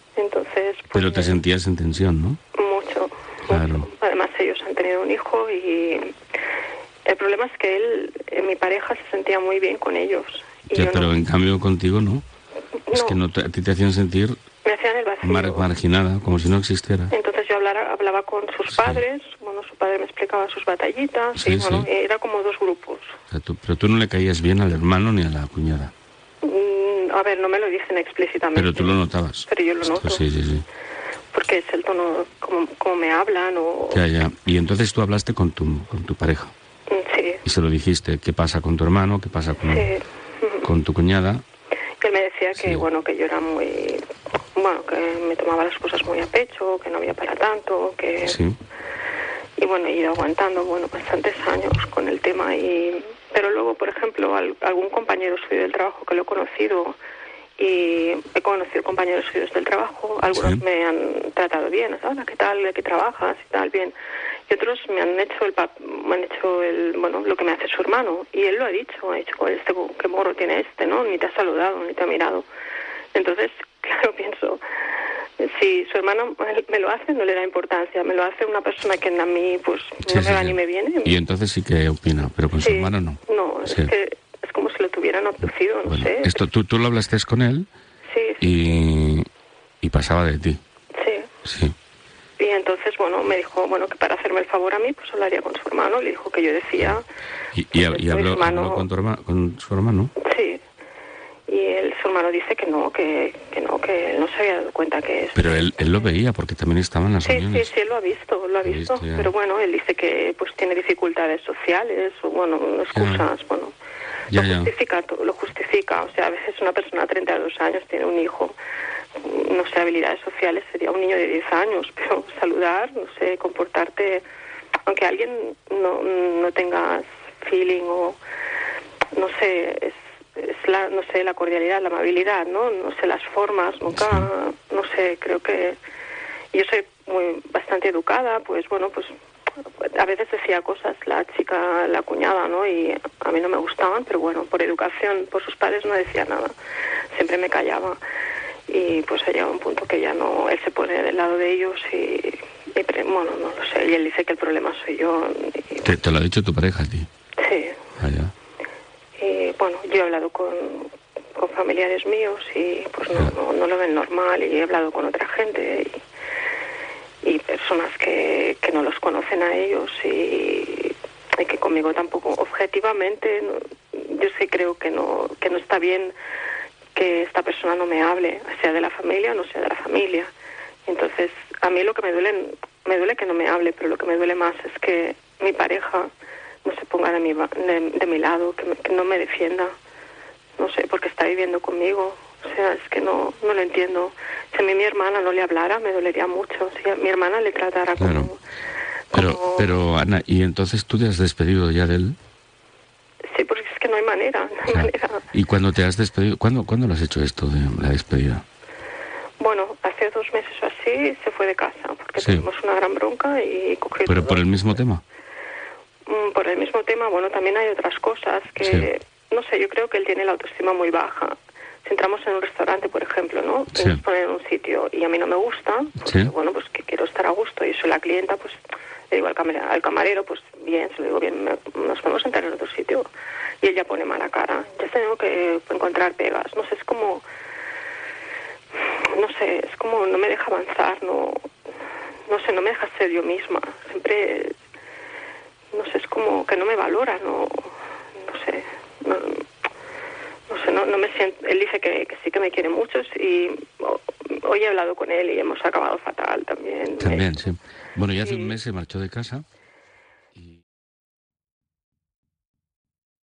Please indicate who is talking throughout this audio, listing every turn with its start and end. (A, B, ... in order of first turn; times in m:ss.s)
0:00.2-0:01.4 A
0:00.9-0:02.4 B
0:02.6-0:06.2 A
0:03.5-0:03.9 B
0:07.0-0:11.1 A
0:10.7-0:12.2 B
0:12.9-0:13.2 A
0:12.9-0:14.4 B
0:14.6-0:15.7 A
0:15.2-0:17.1 B
0:17.1-0:23.2 A
0:18.7-0:19.0 B
0:21.4-0:21.9 B
0:23.3-0:25.9 B
0:26.4-0:30.2 A
0:28.6-0:30.7 B
0:31.3-0:34.0 A
0:33.9-0:36.5 B
0:36.9-0:37.4 A
0:37.4-0:39.9 B
0:39.7-0:40.7 A
0:40.6-0:41.4 B
0:42.0-0:48.4 A
0:42.6-0:42.8 B
0:48.2-0:48.6 B
0:49.6-0:57.0 A
0:57.6-1:04.0 A
1:00.3-1:00.6 B
1:04.5-1:12.5 A
1:13.1-1:14.6 A
1:15.4-1:21.2 A
1:20.0-1:23.9 B
1:22.6-1:26.4 A
1:25.9-1:27.7 B
1:28.0-1:28.5 A
1:28.4-1:29.3 B
1:29.8-1:30.6 B
1:31.0-1:31.3 A
1:31.4-1:31.8 B
1:32.4-1:37.0 A
1:37.5-1:40.1 B
1:37.8-1:38.9 A
1:40.2-1:40.6 A
1:41.5-1:46.2 A
1:45.4-1:47.7 B
1:47.2-1:53.7 A
1:48.6-1:49.3 B
1:52.9-1:53.3 B
1:54.3-1:54.7 B
1:54.3-1:58.6 A
1:59.2-2:04.2 A
2:04.8-2:08.2 A
2:09.1-2:15.8 A
2:14.0-2:14.3 B
2:16.5-2:19.1 A
2:19.8-2:26.5 A
2:27.1-2:28.0 A
2:28.7-2:35.9 A
2:35.8-2:37.1 B
2:37.4-2:37.8 A
2:38.0-2:38.3 B
2:39.2-2:46.0 A
2:47.2-2:56.2 A
2:56.9-3:00.3 A
3:00.9-3:06.1 A
3:06.6-3:09.7 A
3:10.6-3:18.4 A
3:18.0-3:18.3 B
3:19.1-3:19.8 A
3:19.1-3:22.2 B
3:23.3-3:25.2 A
3:24.7-3:28.4 B
3:29.4-3:34.6 A
3:32.2-3:32.4 B
3:34.1-3:35.0 B
3:36.1-3:53.1 A
3:38.6-3:38.9 B
3:43.8-3:44.0 B
3:46.0-3:46.3 B
3:53.6-3:57.2 A
3:59.0-4:01.5 A
4:02.3-4:04.6 A
4:05.7-4:07.7 A
4:08.2-4:09.4 A
4:10.5-4:17.3 A
4:17.0-4:19.4 B